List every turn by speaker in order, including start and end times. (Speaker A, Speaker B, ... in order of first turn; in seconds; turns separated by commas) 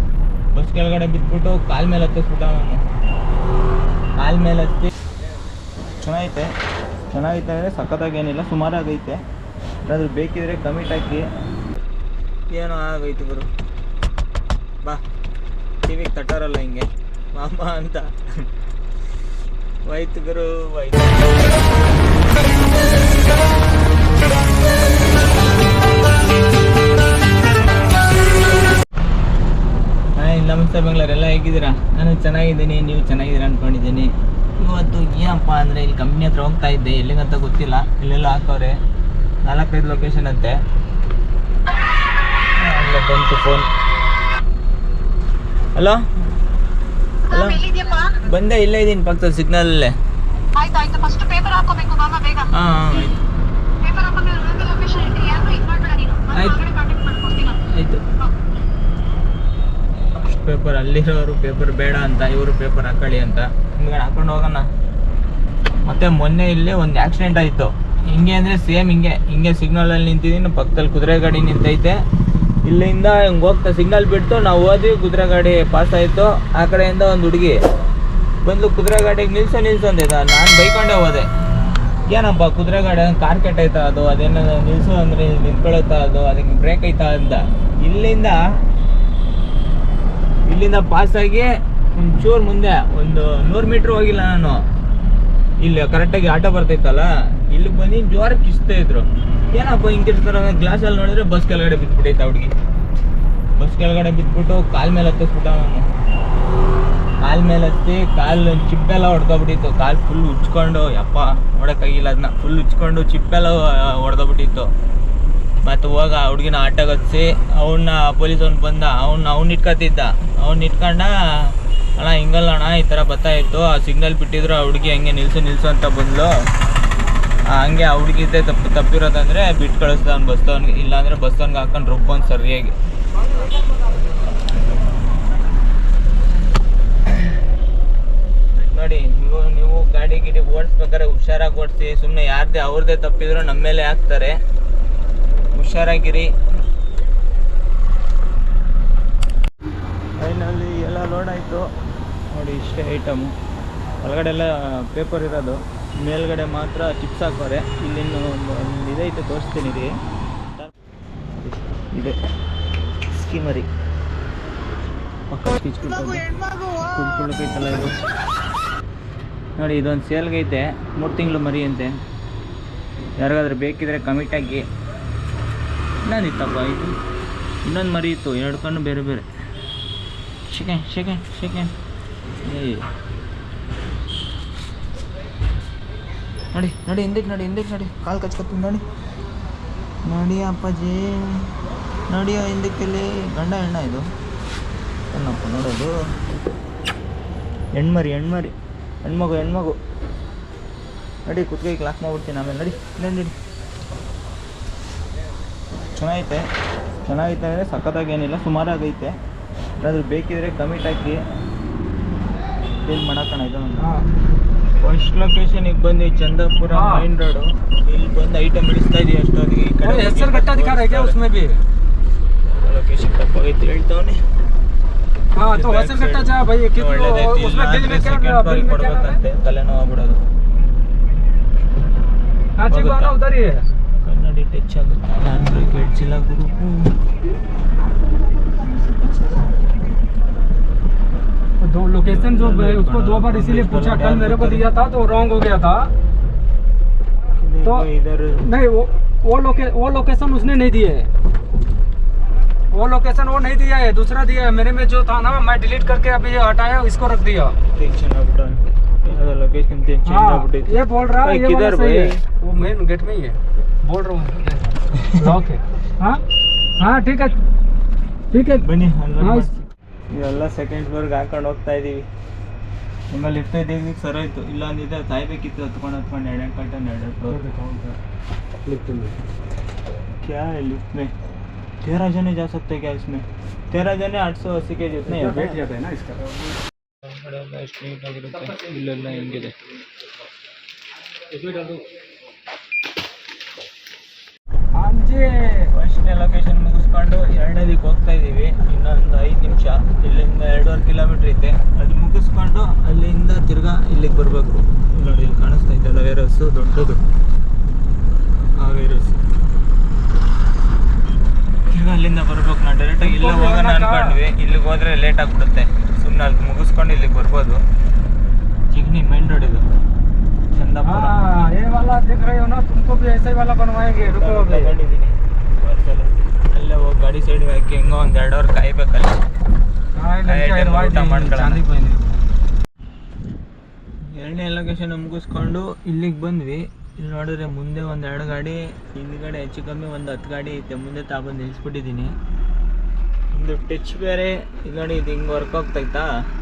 Speaker A: 0.5-2.8, Speaker A: 4.2-4.9, Speaker A: 6.0-6.5, Speaker A: 7.1-9.2, Speaker A: 9.9-11.3, Speaker A: 12.5-13.5, Speaker A: 15.8-18.5, Speaker A: 19.8-21.6, Speaker A: 30.1-38.8, Speaker A: 39.4-40.6, Speaker A: 42.5-43.7, Speaker A: 45.7-46.0, Speaker A: 47.2-49.9, Speaker B: 47.7-48.1, Speaker B: 50.5-52.5, Speaker A: 52.4-53.2, Speaker B: 53.8-57.5, Speaker A: 56.2-56.8, Speaker A: 57.4-58.0, Speaker A: 60.1-64.7, Speaker A: 65.8-72.0, Speaker A: 72.6-77.6, Speaker A: 78.4-81.3, Speaker A: 82.1-88.4, Speaker A: 90.5-94.6, Speaker A: 95.6-102.5, Speaker A: 103.5-105.8, Speaker A: 107.2-114.7, Speaker A: 115.6-126.3, Speaker A: 127.5-132.8, Speaker A: 138.5-144.3, Speaker A: 145.5-146.3, Speaker A: 150.2-151.7, Speaker A: 152.3-153.3, Speaker A: 154.0-159.9, Speaker A: 161.4-162.2, Speaker A: 163.1-163.7, Speaker A: 165.3-167.9, Speaker A: 169.6-171.9, Speaker A: 173.2-174.7, Speaker A: 176.0-176.9, Speaker A: 177.6-179.3, Speaker A: 180.5-181.7, Speaker A: 182.4-182.9, Speaker A: 186.5-188.8, Speaker A: 190.0-191.6, Speaker A: 192.1-194.1, Speaker A: 195.1-195.9, Speaker A: 197.7-199.8, Speaker A: 201.2-203.3, Speaker A: 205.9-206.4, Speaker A: 207.1-209.1, Speaker A: 209.8-211.2, Speaker A: 212.8-213.8, Speaker C: 213.8-214.1, Speaker A: 214.8-221.2, Speaker C: 216.7-217.1, Speaker C: 219.8-221.6, Speaker A: 222.4-224.2, Speaker C: 225.3-229.2, Speaker A: 225.4-230.2, Speaker C: 232.6-233.7, Speaker A: 232.7-233.1, Speaker A: 234.0-236.9, Speaker C: 241.6-245.9, Speaker A: 242.0-244.7, Speaker A: 247.4-248.5, Speaker C: 248.4-251.1, Speaker C: 252.7-257.6, Speaker A: 257.7-262.2, Speaker C: 260.1-266.2, Speaker A: 264.9-265.3, Speaker C: 266.8-267.4, Speaker C: 268.3-268.6, Speaker A: 268.5-272.1, Speaker C: 269.2-269.5, Speaker A: 273.1-277.4, Speaker C: 277.4-277.9, Speaker C: 278.6-279.1, Speaker A: 280.2-281.1, Speaker A: 281.8-285.7, Speaker C: 285.2-286.4, Speaker A: 287.0-289.6, Speaker C: 291.3-291.8, Speaker C: 294.8-295.7, Speaker A: 295.7-307.0, Speaker A: 308.6-309.2, Speaker A: 311.7-317.6, Speaker C: 313.0-314.2, Speaker A: 318.7-319.6, Speaker A: 320.5-321.2, Speaker C: 320.8-324.8, Speaker A: 324.0-329.2, Speaker C: 329.9-332.1, Speaker A: 330.2-331.6, Speaker A: 334.1-342.1, Speaker A: 343.3-346.1